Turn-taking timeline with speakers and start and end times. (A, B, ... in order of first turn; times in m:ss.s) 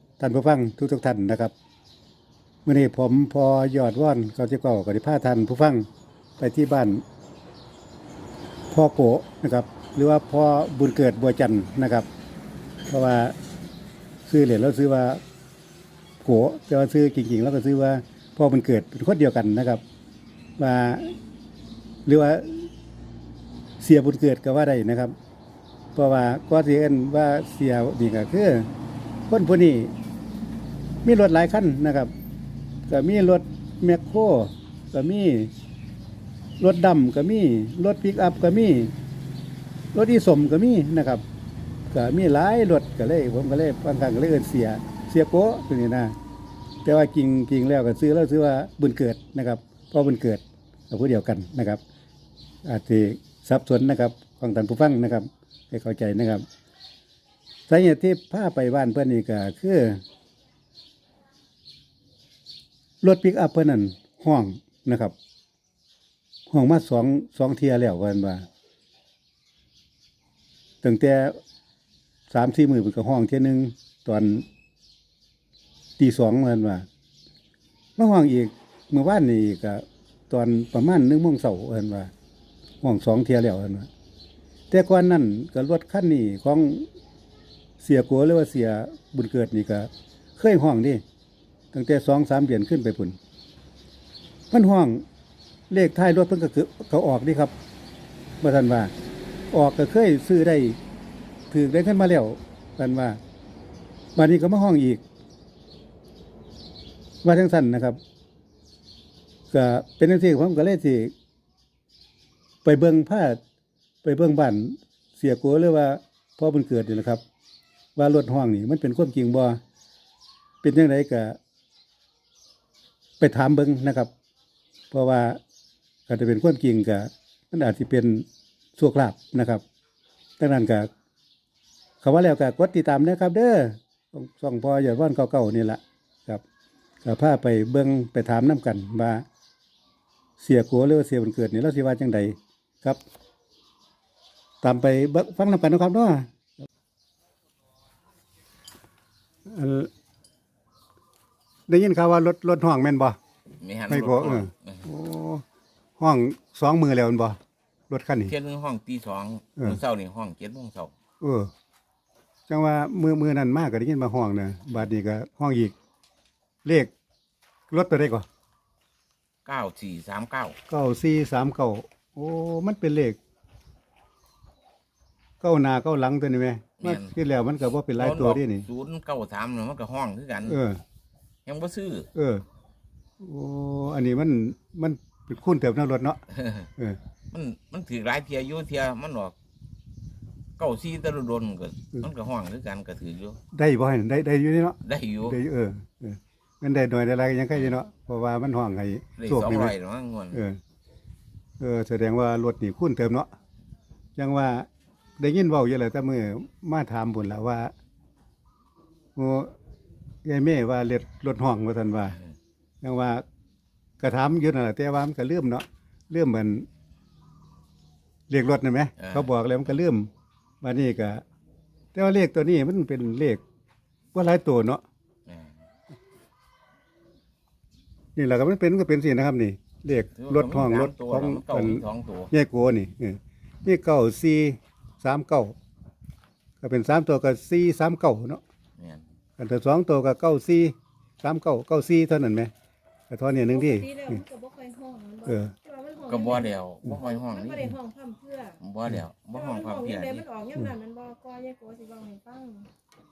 0:00.2-0:01.5 A
0:02.6-0:05.9 A
0:06.4-0:07.0 A
0:08.7-0:12.1 A
0:12.9-0:13.3 A
0:14.3-0:15.2 A
0:16.2-0:19.8 A
0:20.6-0:21.1 A
0:22.0-0:22.7 A
0:23.8-0:25.1 A
0:26.0-0:28.7 A
0:29.3-0:29.9 A
0:31.0-0:32.1 A
0:32.9-0:35.5 A
0:36.6-0:38.9 A
0:39.9-0:41.2 A
0:41.9-0:46.1 A
0:46.8-0:51.8 A
0:52.6-0:56.4 A
0:57.7-1:00.0 A
1:03.0-1:05.1 A
1:06.5-1:08.4 A
1:10.8-1:11.4 A
1:12.3-1:14.4 A
1:16.0-1:16.9 A
1:18.0-1:22.1 A
1:22.8-1:23.9 A
1:24.7-1:26.9 A
1:27.8-1:31.0 A
1:31.7-1:33.2 A
1:34.5-1:35.0 A
1:35.7-1:37.5 A
1:38.4-1:38.9 A
1:39.5-1:40.8 A
1:41.5-1:43.2 A
1:44.2-1:45.0 A
1:47.2-1:48.0 A
1:49.5-1:51.1 A
1:52.6-1:53.4 A
1:54.0-1:57.2 A
1:58.0-1:59.6 A
2:00.6-2:01.4 A
2:03.2-2:04.1 A
2:04.9-2:05.4 A
2:06.1-2:08.2 A
2:08.8-2:09.6 A
2:10.4-2:10.9 A
2:12.0-2:16.4 A
2:17.0-2:19.2 A
2:20.4-2:23.0 A
2:24.6-2:26.3 A
2:29.5-2:29.9 A
2:31.7-2:33.2 A
2:33.6-2:34.9 B
2:33.9-2:35.4 A
2:36.0-2:37.4 A
2:37.9-2:38.3 A
2:38.2-2:40.9 B
2:41.2-2:41.5 A
2:42.5-2:45.7 A
2:46.6-2:46.9 A
2:47.7-2:48.2 A
2:49.4-2:50.6 B
2:50.7-2:53.2 A
2:55.4-2:58.7 A
2:56.8-2:57.2 B
2:57.9-3:00.6 B
3:00.5-3:00.8 A
3:01.5-3:02.1 B
3:02.2-3:02.4 A
3:03.2-3:06.2 A
3:06.3-3:06.7 B
3:07.3-3:09.4 B
3:10.6-3:13.4 B
3:13.5-3:19.7 A
3:14.8-3:15.4 B
3:19.2-3:20.4 B
3:20.3-3:20.6 A
3:21.6-3:23.3 A
3:24.2-3:24.7 A
3:25.2-3:27.7 A
3:29.2-3:29.5 A
3:30.2-3:32.2 A
3:32.8-3:33.2 A
3:34.0-3:36.7 A
3:38.3-3:40.1 A
3:39.0-3:39.3 B
3:40.6-3:41.2 A
3:41.9-3:43.4 A
3:44.1-3:44.8 A
3:45.3-3:45.6 B
3:48.2-3:55.6 A
3:50.2-3:52.3 B
3:56.6-3:58.4 A
3:58.8-3:59.0 B
3:59.4-4:02.5 A
4:03.1-4:03.9 A
4:03.4-4:08.6 C
4:05.3-4:05.5 A
4:06.0-4:07.8 B
4:08.6-4:10.3 B
4:09.4-4:12.7 C